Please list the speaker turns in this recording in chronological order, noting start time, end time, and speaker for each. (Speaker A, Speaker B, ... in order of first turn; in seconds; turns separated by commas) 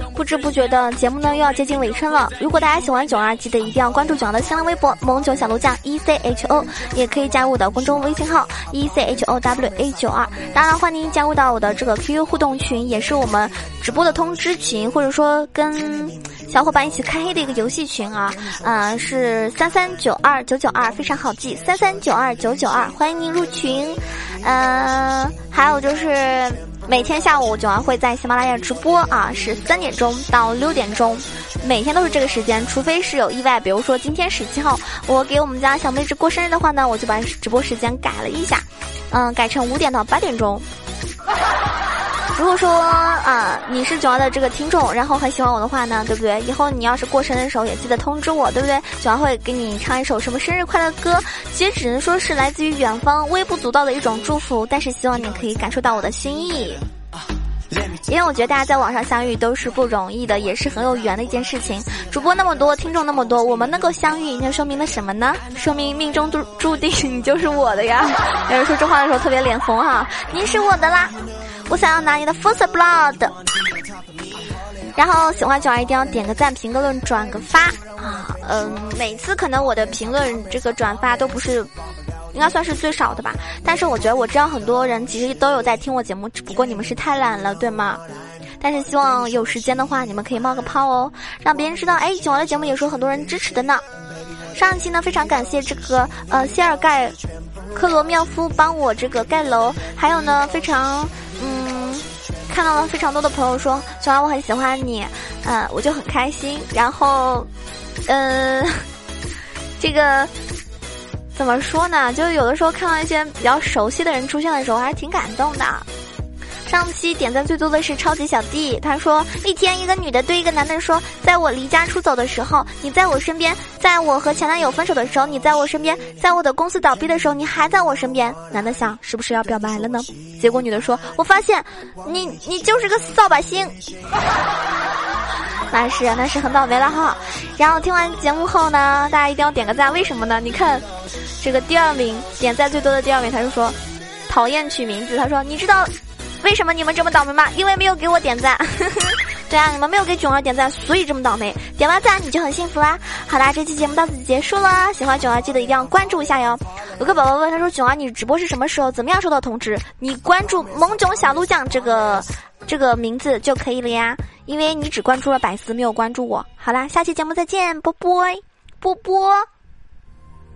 Speaker A: 0.1-40.7, Speaker A: 42.3-56.8, Speaker A: 58.0-73.4, Speaker A: 75.0-81.7, Speaker A: 82.3-88.0, Speaker A: 88.6-93.8, Speaker A: 94.5-97.2, Speaker A: 97.7-107.5, Speaker A: 108.1-108.9, Speaker A: 109.8-110.3, Speaker A: 111.3-115.9, Speaker A: 116.7-133.8, Speaker A: 135.7-140.9, Speaker A: 141.4-169.5